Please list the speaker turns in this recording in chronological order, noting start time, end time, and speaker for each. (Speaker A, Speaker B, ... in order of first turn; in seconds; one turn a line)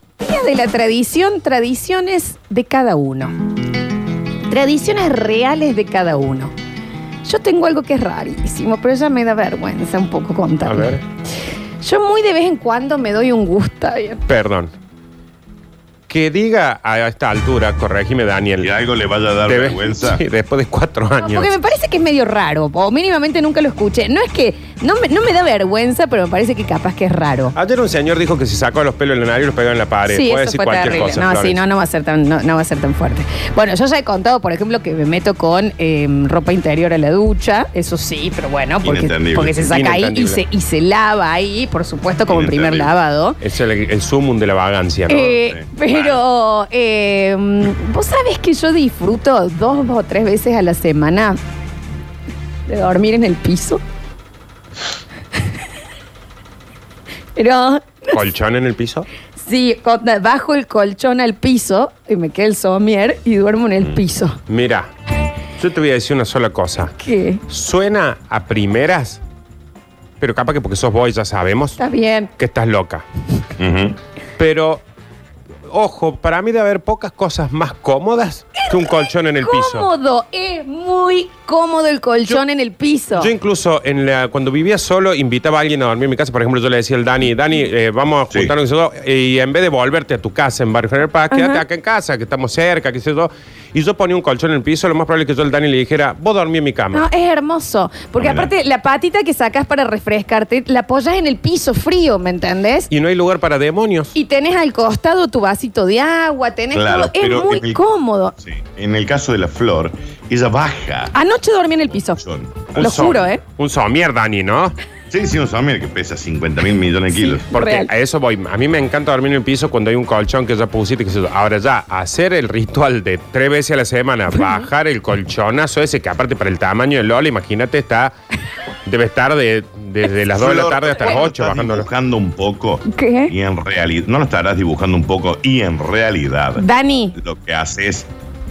Speaker A: 0.2-3.4
Speaker A: 4.5-6.5
Speaker A: 7.2-10.9
Speaker B: 10.6-11.0
Speaker A: 11.8-14.2
Speaker B: 14.3-14.7
Speaker B: 16.1-18.7
Speaker C: 18.6-20.2
Speaker B: 19.5-21.5
Speaker A: 21.2-27.6
Speaker B: 27.6-31.6
Speaker A: 30.1-43.4
Speaker C: 38.8-39.7
Speaker B: 39.7-40.4
Speaker C: 42.3-42.9
Speaker B: 43.4-45.4
Speaker A: 45.1-51.4
Speaker C: 45.3-46.2
Speaker A: 52.7-53.8
Speaker A: 57.4-58.2
Speaker B: 58.1-59.1
Speaker A: 59.4-64.4
Speaker B: 64.5-64.9
Speaker B: 65.6-66.9
Speaker A: 67.0-67.4
Speaker B: 67.5-69.2
Speaker B: 70.2-71.8
Speaker A: 71.8-72.3
Speaker B: 72.4-73.0
Speaker C: 73.6-74.0
Speaker B: 74.4-74.8
Speaker B: 75.7-79.9
Speaker A: 78.6-83.3
Speaker B: 83.2-97.0
Speaker A: 91.3-91.6
Speaker A: 96.9-102.9
Speaker C: 98.2-98.5
Speaker B: 102.9-104.1
Speaker A: 104.2-108.3
Speaker C: 106.7-107.8
Speaker C: 108.4-111.1
Speaker A: 111.1-112.2
Speaker C: 112.0-113.2
Speaker A: 112.8-113.4
Speaker B: 112.8-114.8
Speaker C: 115.1-117.5
Speaker A: 117.1-117.9
Speaker B: 117.5-128.1
Speaker A: 124.3-124.7
Speaker B: 128.9-131.9
Speaker C: 130.3-138.1
Speaker A: 132.9-133.3
Speaker A: 136.6-137.2